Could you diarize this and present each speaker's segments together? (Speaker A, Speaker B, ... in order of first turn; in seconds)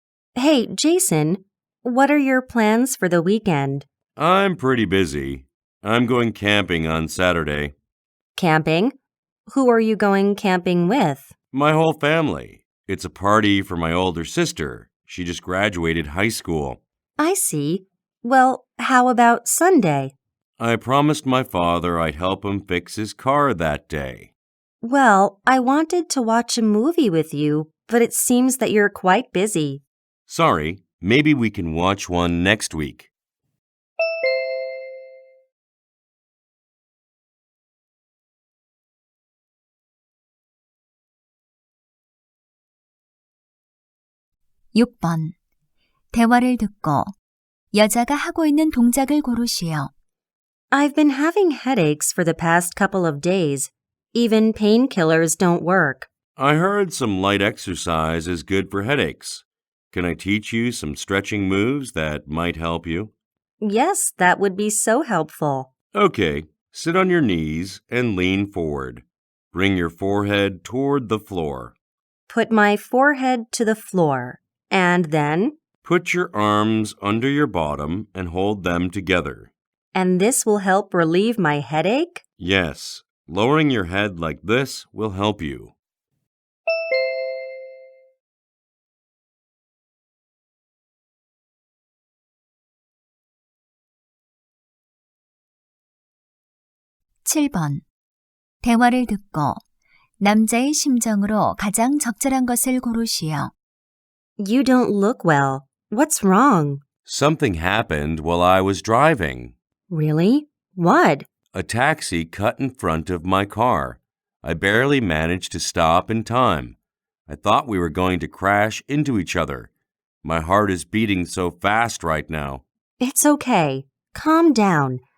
Speaker A: 0.4-3.9, 8.4-8.9, 9.5-11.3, 17.2-20.1, 24.8-29.8, 50.7-56.1, 63.6-65.7, 72.3-75.5, 79.9-82.2, 104.4-106.8, 109.9-111.3, 123.0-125.0
Speaker B: 4.2-7.7, 11.5-16.8, 20.6-24.3, 30.3-33.1, 56.4-63.1, 65.9-71.7, 75.8-79.5, 82.4-85.8, 107.1-109.5, 111.5-116.8, 117.3-119.7, 120.2-122.6
Speaker C: 44.7-45.4, 46.1-47.1, 47.7-49.9, 97.2-97.8, 98.6-99.6, 100.2-103.5